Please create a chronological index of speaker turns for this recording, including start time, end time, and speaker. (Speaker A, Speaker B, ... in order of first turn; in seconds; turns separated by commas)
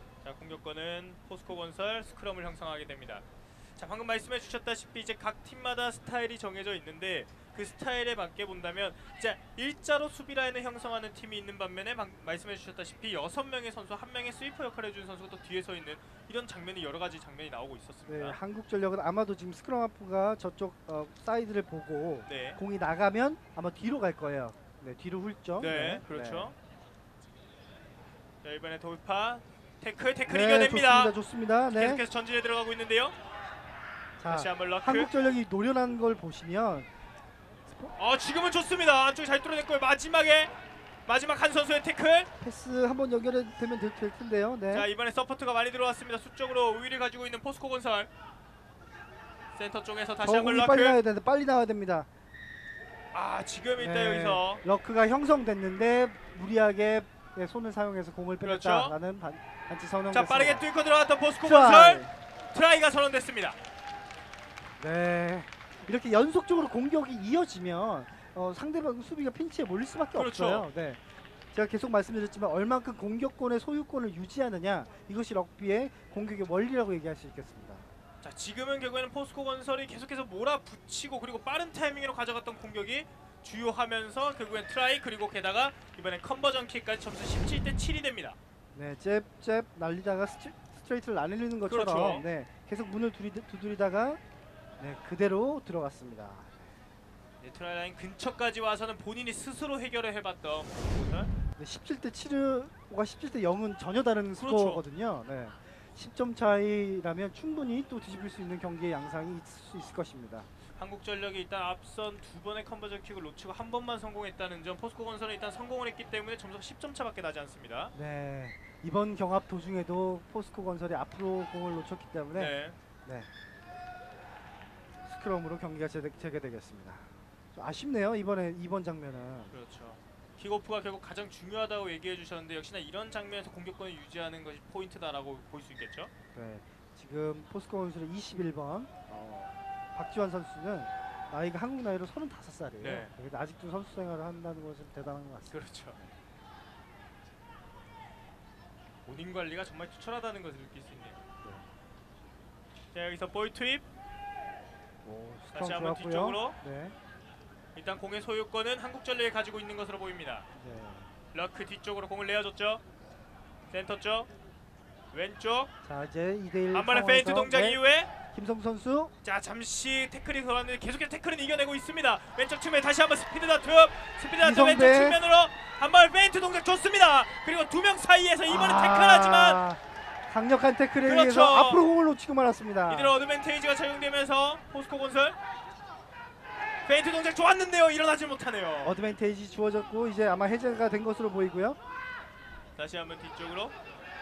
Speaker A: 0.2-18.4, Speaker B: 18.1-26.5, Speaker A: 22.2-22.6, Speaker A: 25.6-26.5, Speaker A: 28.4-31.1, Speaker B: 30.3-32.0, Speaker A: 31.7-33.1, Speaker B: 34.2-36.9, Speaker A: 34.3-35.1, Speaker B: 37.7-37.9, Speaker A: 37.9-40.5, Speaker A: 41.0-42.3, Speaker B: 42.4-44.9, Speaker A: 44.7-48.1, Speaker A: 49.5-51.0, Speaker B: 50.2-52.1, Speaker A: 53.1-54.6, Speaker B: 53.8-60.6, Speaker A: 58.4-58.9, Speaker A: 60.1-63.6, Speaker B: 61.4-62.1, Speaker B: 64.8-71.0, Speaker A: 70.1-70.7, Speaker B: 71.5-77.9, Speaker A: 78.2-88.4, Speaker B: 88.7-94.2, Speaker A: 91.7-92.2, Speaker B: 94.8-96.8, Speaker A: 97.4-101.3, Speaker B: 101.6-110.5, Speaker A: 104.4-104.8, Speaker A: 110.8-117.9, Speaker B: 117.9-123.3, Speaker A: 122.3-122.8, Speaker B: 125.0-129.5, Speaker A: 129.5-136.1, Speaker B: 136.3-146.1, Speaker A: 142.8-143.1, Speaker A: 145.5-146.0, Speaker A: 149.0-151.2, Speaker A: 152.9-153.8, Speaker B: 155.0-156.9, Speaker A: 155.5-156.6, Speaker A: 157.7-160.5, Speaker B: 160.5-161.1, Speaker A: 161.3-162.8, Speaker A: 163.7-164.3, Speaker A: 165.1-165.7, Speaker B: 165.8-167.8, Speaker A: 166.7-168.1, Speaker B: 168.3-169.1, Speaker A: 169.2-179.6, Speaker B: 174.4-175.2, Speaker B: 178.5-183.1, Speaker A: 181.0-181.8, Speaker A: 182.9-185.4, Speaker A: 186.8-188.9, Speaker B: 188.8-191.8, Speaker A: 192.8-193.7